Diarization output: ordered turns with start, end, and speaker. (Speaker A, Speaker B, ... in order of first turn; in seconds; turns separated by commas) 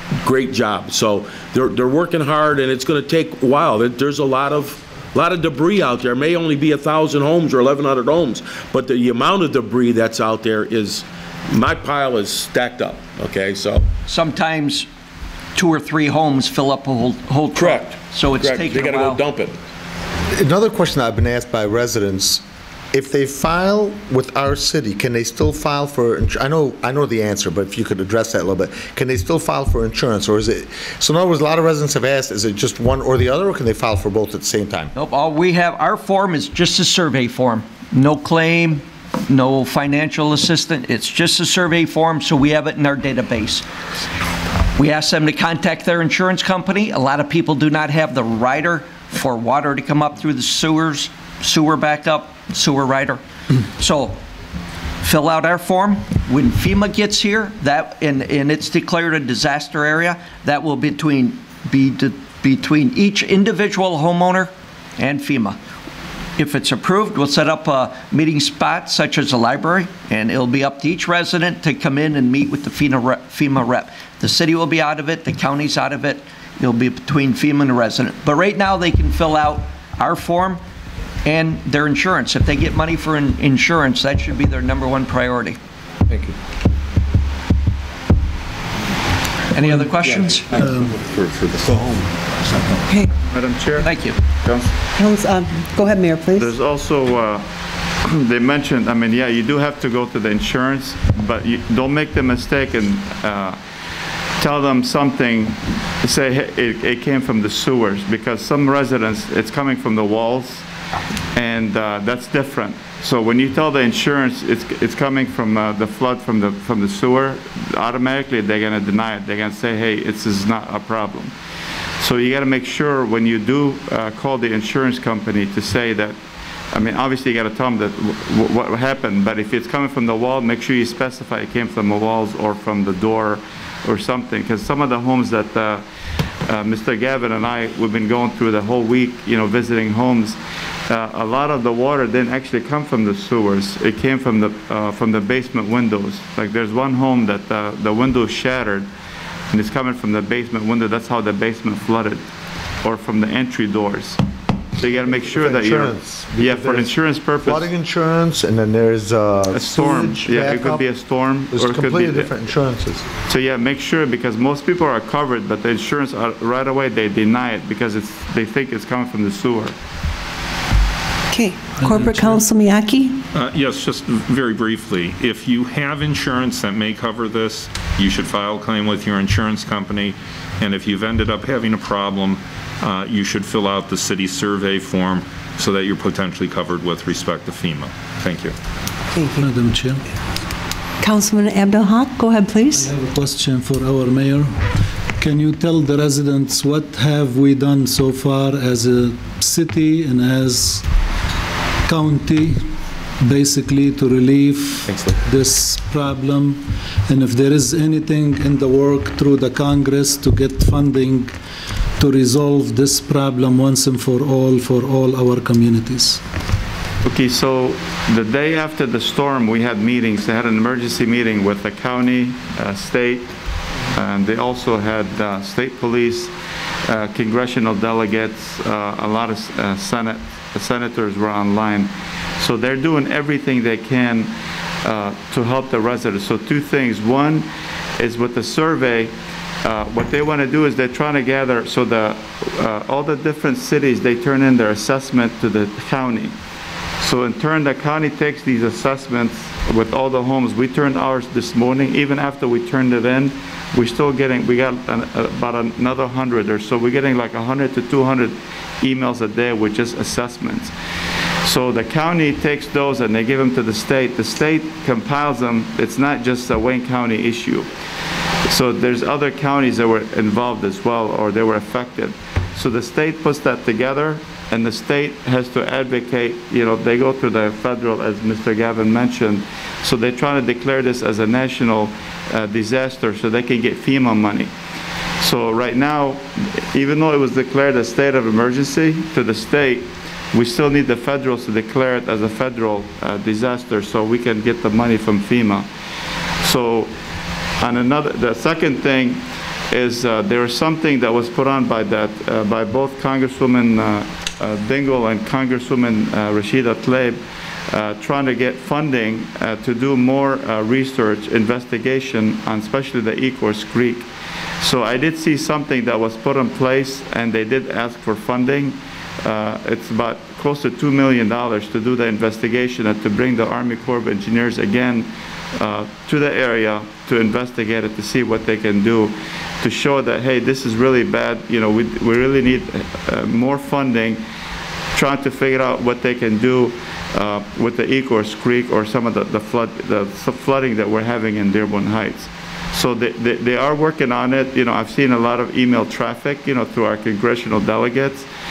Speaker A: 0.2-13.9, Speaker B: 14.1-14.9, Speaker B: 15.6-19.2, Speaker A: 17.6-19.6, Speaker C: 20.3-34.9, Speaker B: 34.9-43.6, Speaker B: 44.8-53.2, Speaker B: 53.8-54.2, Speaker B: 55.0-65.6, Speaker B: 66.4-80.6, Speaker B: 81.2-85.6, Speaker B: 89.5-90.7, Speaker D: 90.5-90.9, Speaker E: 93.2-94.7, Speaker B: 93.8-94.2, Speaker F: 95.0-96.5, Speaker E: 96.4-97.4, Speaker E: 98.0-103.6, Speaker E: 104.4-110.6, Speaker E: 111.3-121.3, Speaker E: 122.0-126.2, Speaker E: 126.7-135.8, Speaker E: 136.5-140.4, Speaker E: 140.9-148.9, Speaker E: 149.5-152.2, Speaker E: 152.8-154.2, Speaker E: 154.8-157.7, Speaker C: 155.1-160.8, Speaker E: 159.5-162.3, Speaker C: 161.5-163.0, Speaker E: 163.3-169.7, Speaker F: 171.3-173.2, Speaker D: 171.8-172.4, Speaker G: 173.3-188.5, Speaker F: 189.1-189.5, Speaker D: 189.4-190.0, Speaker F: 191.0-192.9, Speaker D: 192.7-194.6, Speaker D: 195.2-200.8, Speaker D: 201.9-202.6, Speaker D: 203.2-211.3, Speaker D: 212.0-216.2, Speaker E: 217.0-223.3, Speaker E: 223.9-226.3, Speaker E: 226.9-234.3, Speaker E: 234.8-237.4, Speaker E: 238.0-246.3, Speaker E: 247.0-260.7, Speaker E: 261.4-267.7, Speaker E: 268.5-284.5, Speaker E: 285.2-295.7, Speaker E: 296.4-296.9, Speaker E: 297.6-314.1, Speaker E: 314.6-334.2, Speaker E: 334.9-348.3